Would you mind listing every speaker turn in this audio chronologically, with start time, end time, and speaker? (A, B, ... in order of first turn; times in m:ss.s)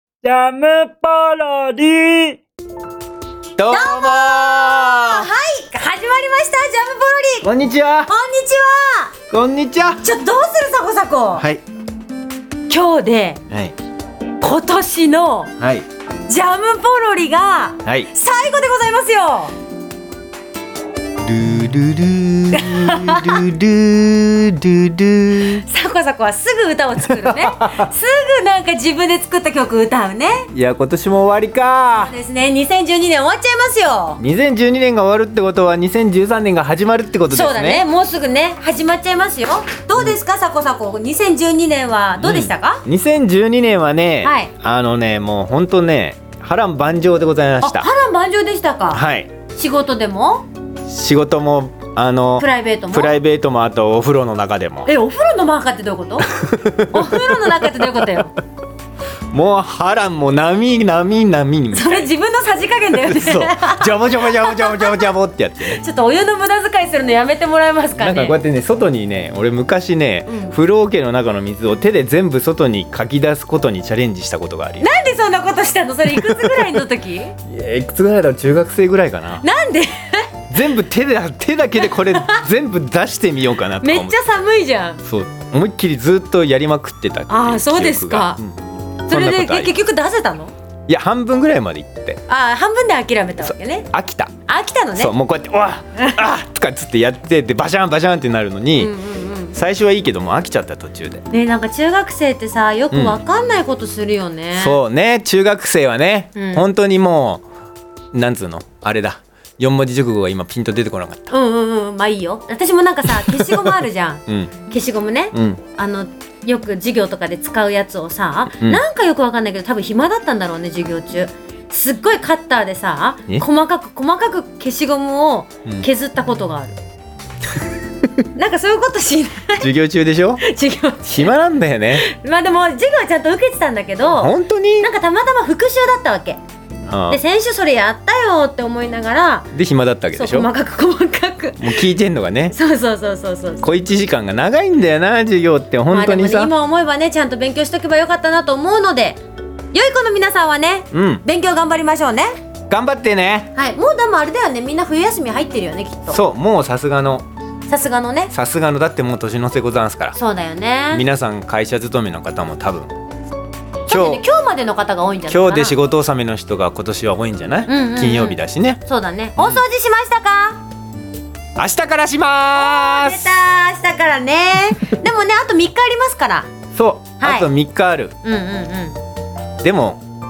0:00.2-0:02.4 A
0:03.6-0:05.3 B
0:03.7-0:07.5 C
0:07.4-0:08.1 B
0:08.1-0:09.1 C
0:09.3-0:10.1 B
0:10.0-0:11.4 C
0:11.4-0:11.6 B
0:12.7-0:13.4 C
0:13.5-0:13.8 B
0:14.4-0:15.5 C
0:15.6-0:15.9 B
0:16.3-0:19.5 C
0:17.8-0:18.1 B
0:21.2-0:25.6 B
0:22.5-0:23.4 C
0:25.4-0:30.5 C
0:27.0-0:27.9 B
0:30.5-0:32.1 B
0:32.0-0:34.2 C
0:34.2-0:37.8 B
0:37.3-0:42.8 C
0:42.2-0:47.9 B
0:44.2-0:44.5 C
0:47.6-0:49.0 C
0:48.9-0:49.3 B
0:49.5-0:50.4 C
0:50.9-0:54.9 B
0:52.4-0:53.2 C
0:54.8-0:56.3 C
0:56.2-0:58.1 B
0:56.9-0:58.3 C
0:59.3-1:02.1 B
1:01.7-1:08.4 C
1:02.9-1:05.8 B
1:08.0-1:14.9 B
1:10.3-1:10.6 C
1:14.8-1:17.4 C
1:16.1-1:16.8 B
1:17.5-1:19.4 B
1:19.4-1:20.3 C
1:20.5-1:24.2 B
1:21.8-1:22.4 C
1:23.8-1:25.0 C
1:25.0-1:29.8 B
1:27.3-1:28.4 C
1:29.1-1:30.5 C
1:30.9-1:32.2 B
1:32.3-1:33.9 C
1:33.4-1:34.3 B
1:34.5-1:35.1 C
1:35.0-1:39.0 B
1:38.8-1:39.6 C
1:39.5-1:41.2 B
1:41.3-1:44.8 C
1:42.9-1:43.2 B
1:44.5-1:47.4 B
1:46.4-1:46.6 C
1:48.1-1:51.3 B
1:51.3-2:06.8 C
1:53.1-1:54.5 B
1:55.3-1:55.6 B
1:58.6-1:58.8 B
2:08.4-2:09.7 C
2:09.6-2:10.4 B
2:10.4-2:11.3 C
2:11.1-2:12.1 B
2:12.0-2:16.4 C
2:14.2-2:14.9 B
2:16.9-2:17.2 B
2:17.1-2:19.5 C
2:19.5-2:20.5 B
2:20.1-2:21.8 C
2:21.6-2:22.6 B
2:22.5-2:23.7 C
2:23.6-2:26.5 B
2:25.9-2:29.2 C
2:29.7-2:32.3 C
2:30.9-2:31.2 B
2:32.7-2:33.5 B
2:33.5-2:36.2 C
2:36.1-2:37.2 B
2:37.7-2:38.3 C
2:38.3-2:40.2 B
2:40.2-2:41.0 C
2:40.9-2:42.9 B
2:43.9-2:44.2 B
2:43.9-2:45.8 C
2:45.3-2:48.8 B
2:47.7-2:50.6 C
2:49.4-2:49.6 B
2:51.6-2:53.3 B
2:52.5-2:56.5 C
2:56.7-2:58.1 B
2:57.2-2:57.5 C
2:58.2-2:59.0 C
2:59.6-3:00.0 B